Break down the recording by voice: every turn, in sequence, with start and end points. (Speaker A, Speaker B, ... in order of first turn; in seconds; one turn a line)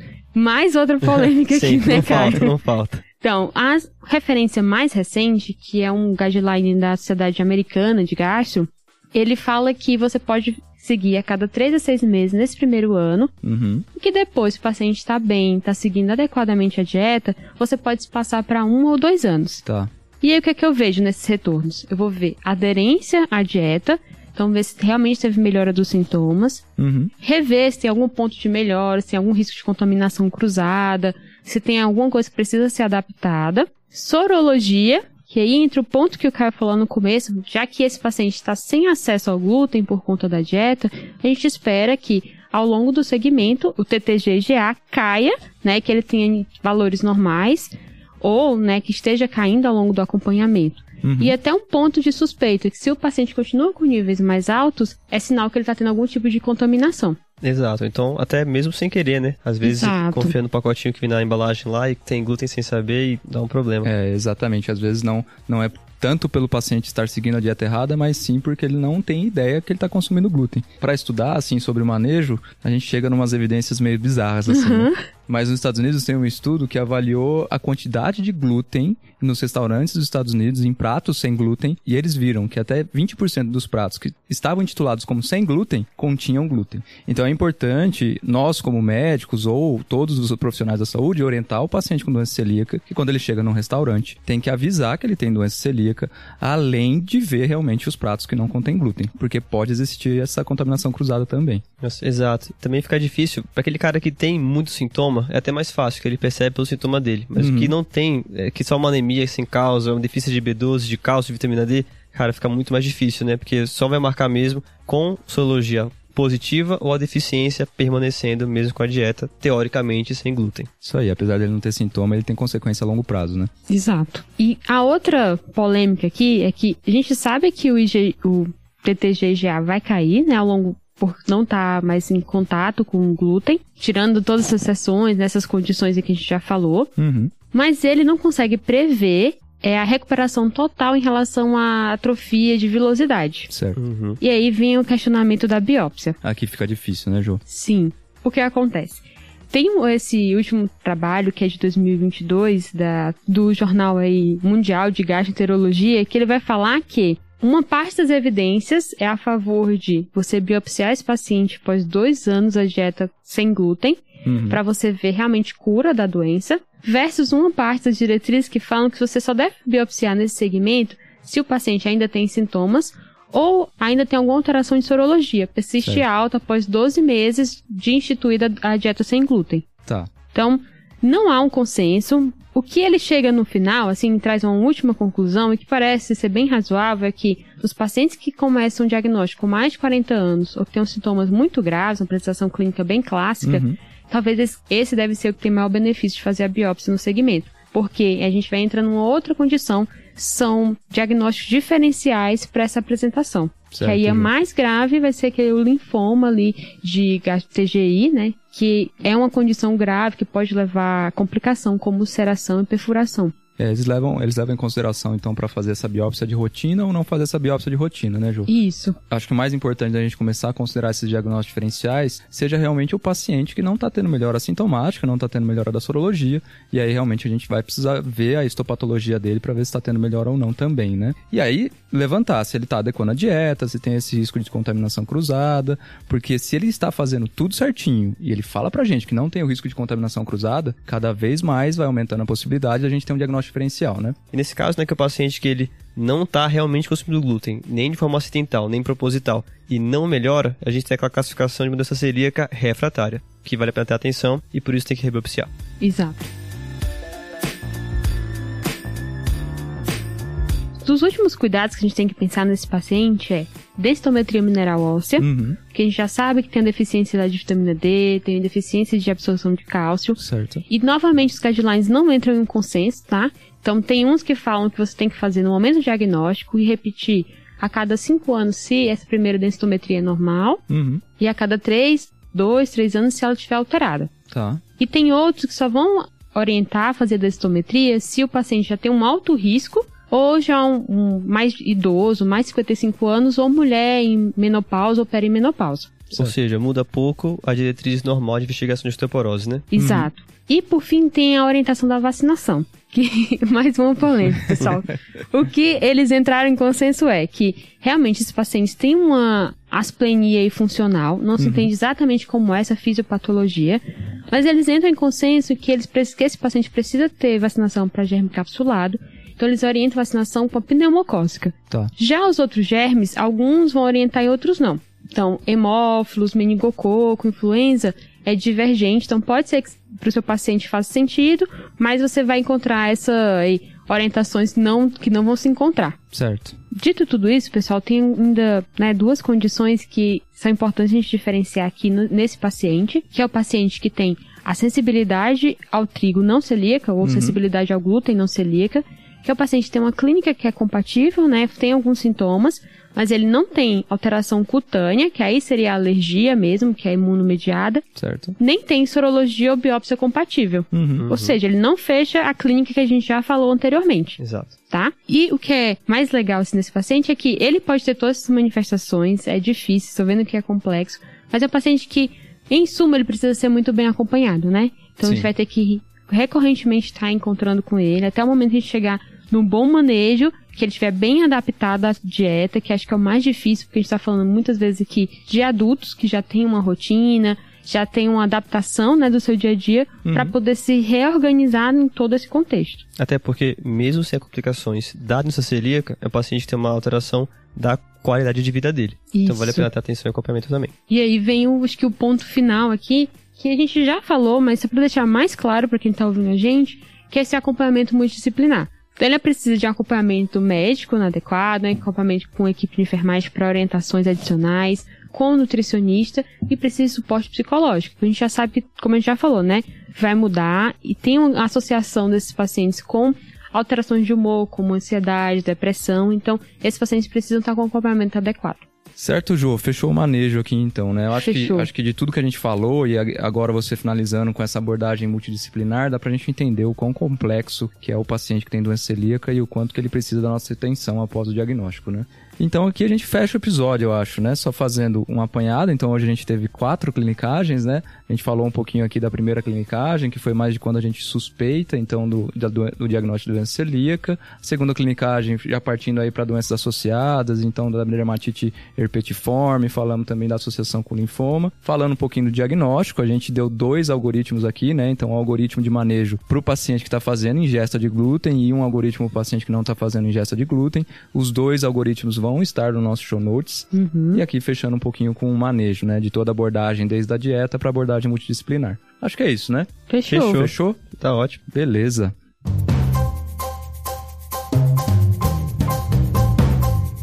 Speaker A: 0.3-2.5
Speaker B: 1.5-3.0
Speaker A: 3.2-13.3
Speaker C: 13.4-13.8
Speaker A: 13.9-19.6
Speaker C: 19.6-19.9
Speaker A: 20.2-26.6
Speaker C: 26.8-27.1
Speaker A: 27.2-57.2
Speaker C: 51.0-51.4
Speaker B: 57.4-63.9
Speaker A: 59.6-60.3
Speaker C: 63.8-101.6
Speaker A: 74.5-75.0
Speaker B: 101.8-120.7
Speaker C: 107.4-107.7
Speaker C: 120.8-123.5
Speaker A: 123.7-136.9
Speaker C: 137.0-137.3
Speaker A: 137.5-143.5
Speaker C: 143.5-143.8
Speaker B: 143.8-144.2
Speaker A: 144.2-146.2
Speaker C: 146.2-147.4
Speaker A: 147.5-179.7
Speaker C: 164.2-164.6
Speaker A: 180.3-213.3
Speaker C: 193.4-193.7
Speaker C: 203.7-204.3
Speaker C: 213.6-218.5
Speaker A: 218.5-219.0
Speaker C: 219.1-244.2
Speaker B: 244.3-255.5
Speaker A: 255.8-256.2
Speaker A: 260.8-280.6
Speaker C: 265.2-265.6
Speaker C: 270.2-270.6
Speaker C: 280.7-281.0
Speaker A: 281.2-284.1
Speaker C: 284.3-284.6
Speaker A: 284.8-296.1
Speaker B: 296.1-299.7
Speaker A: 299.7-336.0
Speaker C: 299.8-300.1
Speaker C: 304.4-304.7
Speaker C: 311.4-311.7
Speaker C: 336.1-336.6
Speaker A: 336.7-357.9
Speaker C: 347.0-347.4
Speaker C: 357.9-358.3
Speaker A: 358.4-392.8
Speaker C: 360.7-361.1
Speaker B: 361.0-361.3
Speaker B: 364.2-364.5
Speaker C: 375.0-375.3
Speaker C: 390.0-390.3
Speaker B: 393.0-400.7
Speaker A: 399.1-399.7
Speaker A: 400.9-428.6
Speaker C: 428.9-480.8
Speaker A: 431.1-431.7
Speaker A: 473.7-474.2
Speaker A: 479.9-480.4
Speaker B: 480.1-481.4
Speaker C: 481.5-482.1